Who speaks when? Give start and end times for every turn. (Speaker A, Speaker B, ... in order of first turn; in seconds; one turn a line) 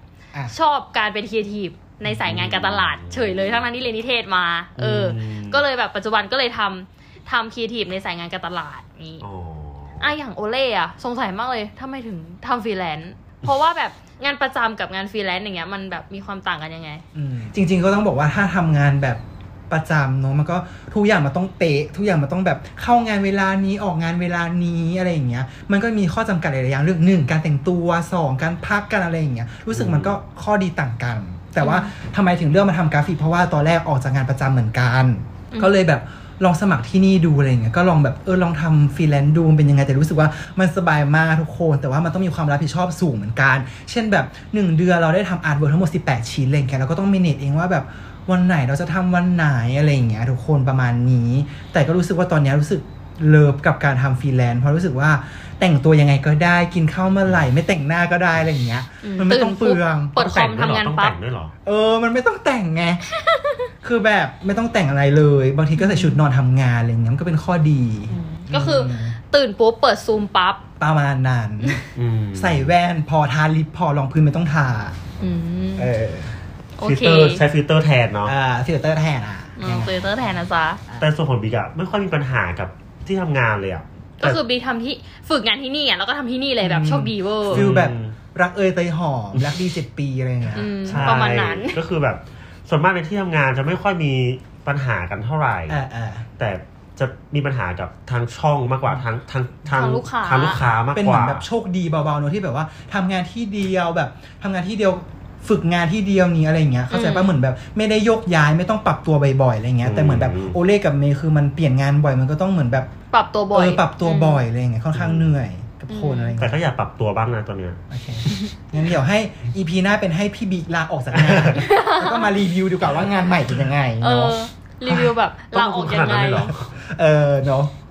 Speaker A: 0.5-9.2
Speaker B: 2.2-3.6
Speaker B: 4.8-5.6
Speaker B: 9.2-10.2
Speaker A: 10.0-17.0
Speaker C: 17.1-60.2
Speaker B: 29.7-30.2
Speaker A: 31.6-31.9
Speaker A: 59.0-61.2
Speaker B: 60.2-61.5
Speaker C: 61.7-63.0
Speaker A: 63.2-63.7
Speaker C: 63.8-69.2
Speaker A: 65.8-66.2
Speaker A: 68.1-70.6
Speaker C: 70.8-75.0
Speaker B: 72.0-72.7
Speaker A: 75.2-75.9
Speaker C: 75.8-76.4
Speaker A: 76.8-77.4
Speaker B: 76.8-78.3
Speaker C: 78.2-80.3
Speaker A: 79.6-80.8
Speaker B: 81.0-84.4
Speaker A: 84.2-87.7
Speaker C: 86.6-91.2
Speaker B: 87.5-88.2
Speaker A: 90.5-91.8
Speaker B: 90.8-95.8
Speaker C: 95.7-96.3
Speaker B: 96.4-101.5
Speaker A: 99.7-100.7
Speaker C: 100.9-112.9
Speaker A: 106.9-107.3
Speaker B: 109.8-110.6
Speaker A: 113.1-114.5
Speaker C: 113.5-116.6
Speaker B: 114.9-115.4
Speaker A: 115.9-116.4
Speaker B: 116.4-117.8
Speaker C: 117.9-125.1
Speaker B: 121.1-121.6
Speaker A: 121.6-122.3
Speaker A: 124.0-126.5
Speaker B: 125.5-126.7
Speaker C: 126.4-127.7